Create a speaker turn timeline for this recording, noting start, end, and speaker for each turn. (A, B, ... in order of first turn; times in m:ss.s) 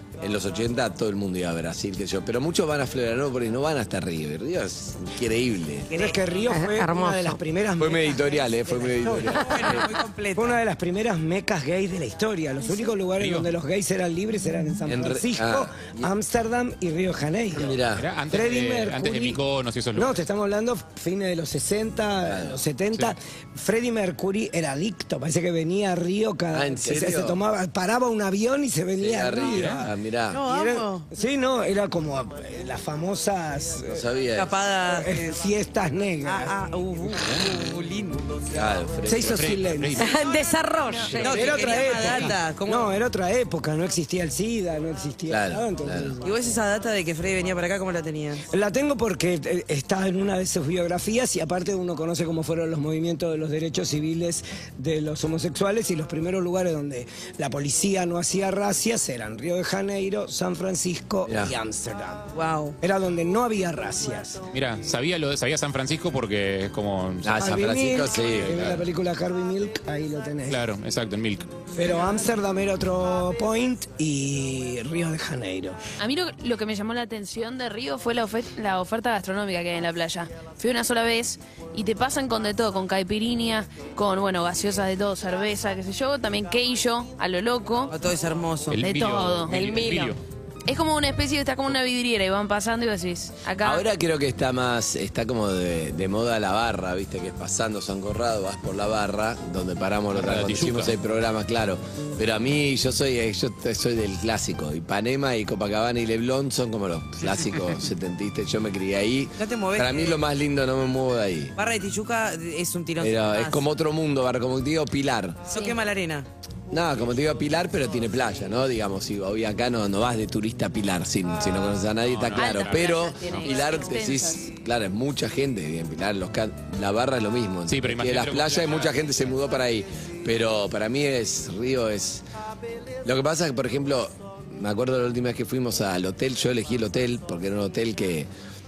0:00.2-0:05.9 A
0:05.9-0:06.5 B
0:05.9-0:09.8 C
0:06.5-0:07.4 D
0:07.8-0:09.9 A
0:09.3-0:10.6 B
0:10.4-0:19.4 C
0:13.2-0:13.5 E
0:14.9-0:16.1 A
0:17.5-0:18.1 A
0:18.0-0:20.2 E
0:20.0-0:34.0 C
0:22.2-0:22.6 A
0:26.5-0:27.4 A
0:29.0-0:30.4 A
0:29.5-0:29.8 E
0:30.3-0:31.1 B
0:33.9-0:34.6 A
0:34.4-0:35.4 B
0:34.9-0:36.5 C
0:36.2-0:38.4 B
0:38.5-0:39.6 A
0:39.0-0:40.1 C
0:39.2-0:40.2 E
0:40.0-0:41.7 D
0:41.0-0:41.3 F
0:41.2-0:42.9 B
0:41.2-0:46.4 C
0:42.0-0:42.3 E
0:45.3-0:46.2 A
0:46.2-0:48.5 B
0:48.5-1:04.4 C
1:01.3-1:01.5 A
1:02.3-1:02.8 B
1:04.5-1:08.7 E
1:07.2-1:08.8 A
1:07.4-1:10.6 C
1:10.5-1:11.5 E
1:11.7-1:15.8 C
1:16.0-1:28.0 F
1:27.9-1:28.8 B
1:28.7-1:30.2 E
1:28.7-1:29.5 F
1:29.5-1:30.2 D
1:30.7-1:33.9 F
1:33.6-1:51.5 A
1:40.1-1:40.9 E
1:49.4-1:50.2 B
1:51.6-1:53.6 B
1:53.0-1:55.5 A
1:55.5-1:56.3 B
1:55.5-1:55.8 F
1:56.7-2:12.2 A
2:02.0-2:03.7 E
2:02.4-2:04.5 F
2:07.7-2:09.0 E
2:13.0-2:18.3 A